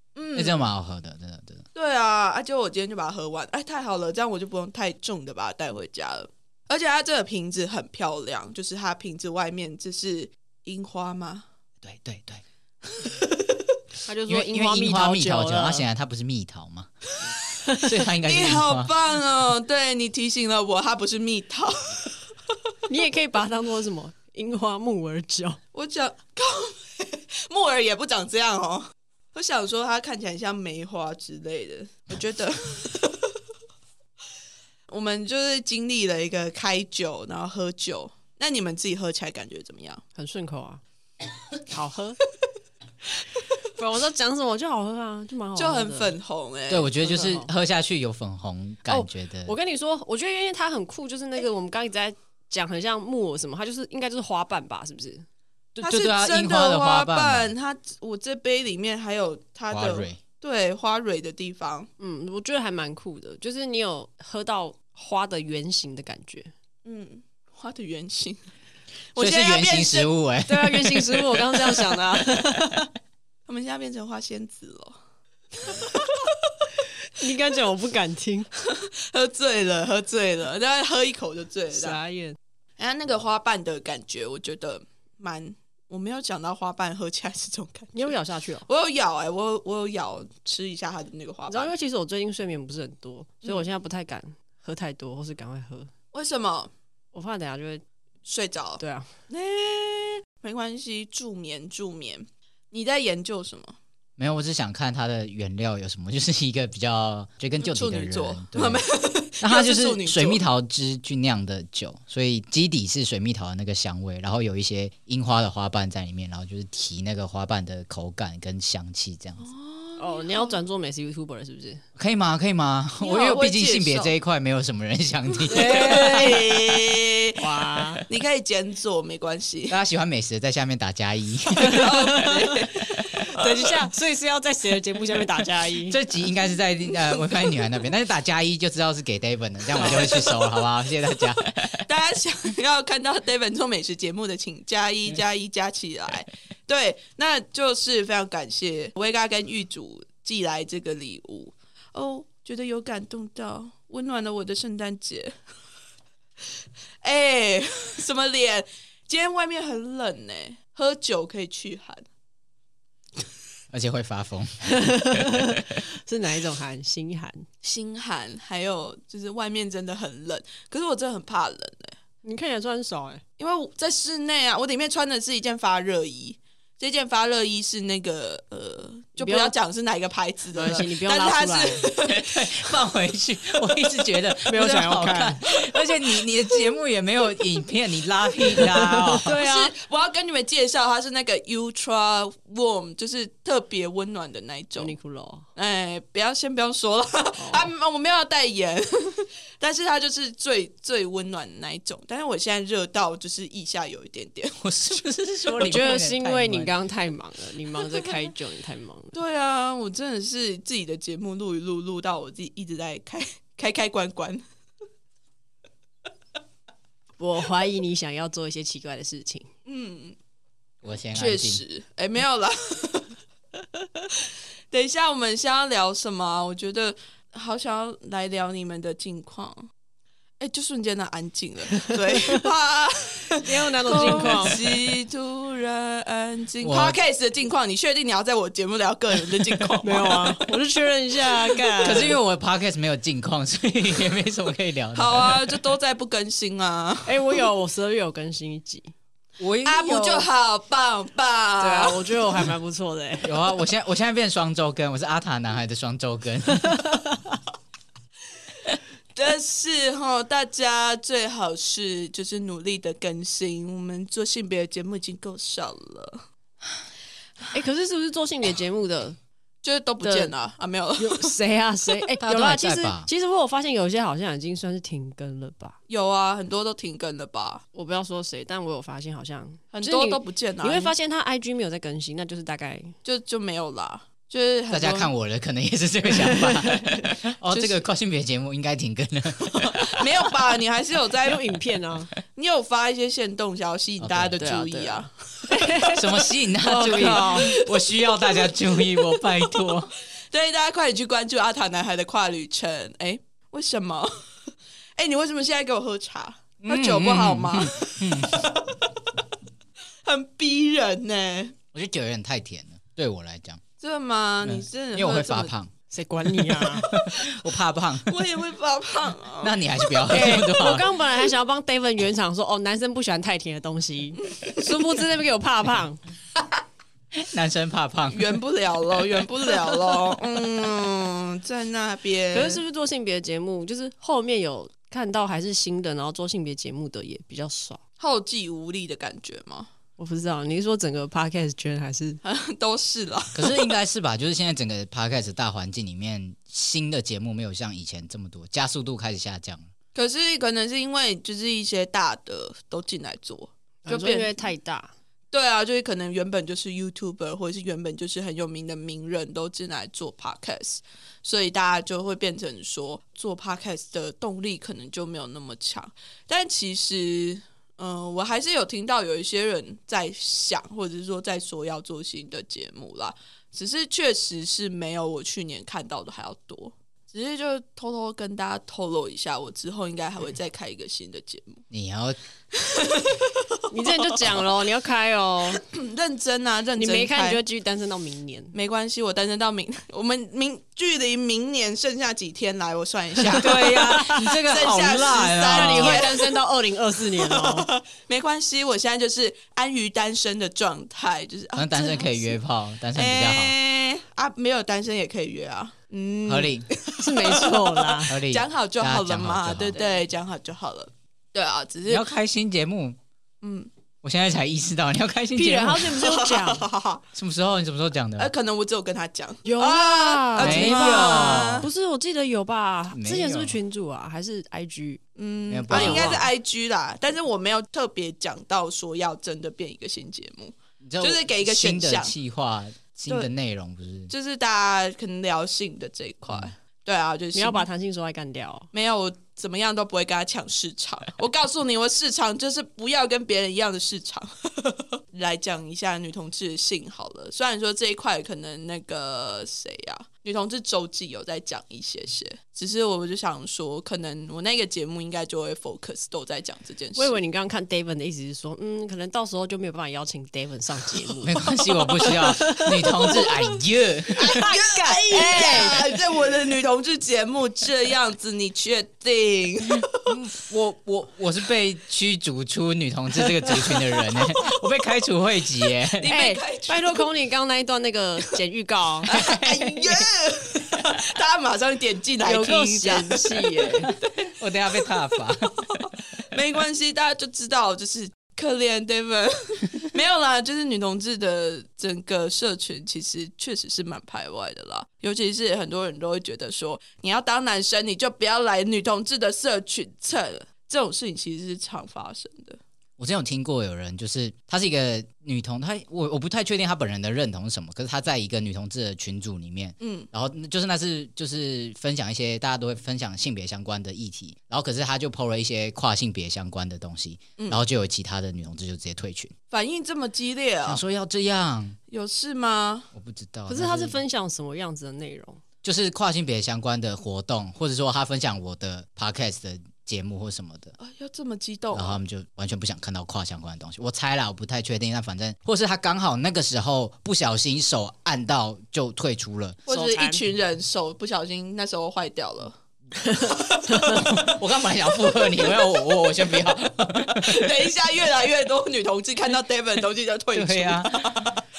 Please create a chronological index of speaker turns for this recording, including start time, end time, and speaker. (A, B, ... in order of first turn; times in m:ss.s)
0:00.1-0:00.7 A
0:00.3-0:01.6 B
0:01.7-0:11.4 A
0:11.8-0:12.4 B
0:14.0-0:15.8 C
0:14.3-0:16.9 B
0:17.7-0:18.9 B
0:17.8-0:22.2 A
0:22.9-0:25.6 C
0:25.7-0:33.3 A
0:34.9-0:40.0 A
0:40.1-0:40.8 C
0:41.6-0:42.2 C
0:43.7-0:46.1 C
0:45.6-0:47.0 A
0:46.7-0:49.5 B
0:47.0-0:47.5 C
0:48.9-0:55.2 C
0:55.8-0:57.5 B
0:55.8-1:01.9 A
0:59.7-1:00.2 B
1:02.0-1:06.5 C
1:06.8-1:08.4 A
1:09.1-1:10.1 A
1:09.2-1:11.6 B
1:10.5-1:12.9 C
1:13.5-1:15.0 A
1:15.6-1:16.3 A
1:17.1-1:18.5 C
1:18.6-1:22.0 A
1:21.7-1:22.4 C
1:22.8-1:31.7 A
1:27.9-1:28.7 C
1:31.5-1:35.9 C
1:36.1-1:36.7 A
1:37.1-1:37.8 C
1:38.2-1:43.8 A
1:38.8-1:39.1 C
1:44.2-1:48.8 B
1:47.6-1:50.4 A
1:49.4-1:59.4 B
1:59.4-2:00.6 A
2:00.0-2:01.8 C
2:02.0-2:06.4 B
2:03.0-2:04.1 A
2:05.5-2:06.5 C
2:05.5-2:07.4 A
2:07.4-2:08.0 C
2:08.1-2:09.8 A
2:09.7-2:11.9 B
2:11.6-2:13.7 A
2:11.7-2:12.3 C
2:13.2-2:16.0 C
2:15.9-2:21.4 B
2:19.7-2:20.5 A
2:21.4-2:35.3 A
2:37.0-2:42.1 A
2:43.7-2:45.6 B
2:44.7-2:47.4 C
2:47.6-2:52.0 A
2:52.2-2:53.2 C
2:53.4-3:02.7 A
2:59.2-2:59.5 C
3:00.5-3:01.9 C
3:02.0-3:09.3 B
3:04.4-3:05.4 C
3:08.6-3:09.7 C
3:09.2-3:14.9 A
3:14.8-3:15.4 C
3:15.6-3:24.6 A
3:17.4-3:17.7 C
3:24.6-3:26.7 B
3:25.5-3:29.1 C
3:29.1-3:34.4 A
3:37.2-3:39.5 C
3:39.6-3:40.2 A
3:40.8-3:41.6 B
3:41.1-3:43.1 A
3:44.7-3:49.7 A
3:50.4-4:00.4 A
3:53.4-3:54.6 C
3:54.0-3:54.5 B
3:56.6-3:57.0 B
3:59.8-4:02.2 C
4:01.5-4:01.8 A
4:01.8-4:05.5 B
4:04.9-4:07.4 A
4:07.0-4:08.9 C
4:09.4-4:10.3 B
4:09.6-4:12.4 A
4:11.6-4:13.5 C
4:13.2-4:17.0 B
4:18.7-4:26.2 A
4:27.5-4:29.2 C
4:29.6-4:31.3 A
4:30.0-4:30.3 C
4:31.0-4:35.8 C
4:32.2-4:33.1 B
4:35.9-4:37.6 A
4:37.7-4:43.0 C
4:39.7-4:40.9 A
4:43.0-4:45.1 A
4:44.7-4:50.0 B
4:46.2-4:46.8 C
4:47.5-4:47.8 A
4:49.5-4:51.4 A
4:51.2-4:52.1 C
4:52.3-4:56.0 A
4:54.0-4:54.5 B
4:54.4-4:57.6 C
4:55.9-4:59.9 B
4:56.7-4:59.7 A
5:00.3-5:04.1 A
5:05.0-5:08.9 A
5:06.6-5:08.5 B
5:10.0-5:11.5 A
5:11.7-5:13.6 B
5:13.8-5:15.5 A
5:14.4-5:15.7 B
5:15.9-5:16.9 C
5:16.4-5:18.2 B
5:16.9-5:17.2 A
5:18.1-5:19.6 A
5:19.4-5:20.9 B
5:20.1-5:26.0 C
5:27.1-5:28.4 B
5:28.1-5:32.6 A
5:32.3-5:37.8 C
5:38.0-5:39.7 A
5:40.0-5:42.2 C
5:42.2-5:43.7 A
5:43.3-5:49.7 B
5:49.9-5:54.5 A
5:53.8-5:54.9 C
5:55.3-6:21.6 A
6:21.7-6:22.2 B
6:22.6-6:23.6 A
6:23.7-6:25.6 C
6:25.6-6:27.4 A
6:26.8-6:28.5 C
6:28.5-6:36.3 A
6:33.2-6:36.1 B
6:33.5-6:34.1 C
6:35.4-6:37.7 C
6:37.1-6:42.4 A
6:41.5-6:43.5 B
6:42.9-6:52.1 A
6:46.3-6:46.7 B
6:47.0-6:48.1 C
6:48.1-6:49.8 B
6:51.9-6:53.0 B
6:53.4-6:53.7 A
6:54.0-6:56.0 B
6:55.3-6:56.7 C
6:55.9-6:57.0 A
6:57.1-6:58.3 B
6:58.2-7:01.7 A
6:59.4-7:05.0 C
7:00.4-7:01.7 B
7:02.9-7:03.6 B
7:05.2-7:12.2 A
7:05.5-7:06.3 B
7:05.7-7:06.2 C
7:10.8-7:14.1 B
7:14.1-7:17.6 A
7:17.3-7:18.7 C
7:18.7-7:37.2 A
7:37.0-7:43.4 C
7:41.2-7:44.5 B
7:44.2-7:50.0 A
7:44.2-7:45.9 C
7:50.0-7:56.1 B
7:55.9-7:57.1 A
7:56.0-7:59.1 C
7:59.0-8:04.1 A
7:59.1-8:00.0 B
8:02.2-8:03.9 C
8:03.9-8:05.8 B
8:05.7-8:22.6 A
8:23.0-8:39.3 B
8:29.8-8:30.1 A
8:39.5-8:40.8 A
8:40.6-8:41.8 B
8:41.9-8:42.9 A
8:42.9-8:44.0 B
8:43.5-8:45.4 C
8:45.6-8:50.7 B
8:50.8-8:52.0 A
8:51.7-8:59.6 B
8:59.7-9:02.5 A
8:59.7-9:00.2 C
9:03.0-9:03.9 C
9:03.2-9:04.4 A
9:03.9-9:07.5 B
9:05.0-9:06.4 A
9:07.0-9:11.4 A
9:10.3-9:11.2 B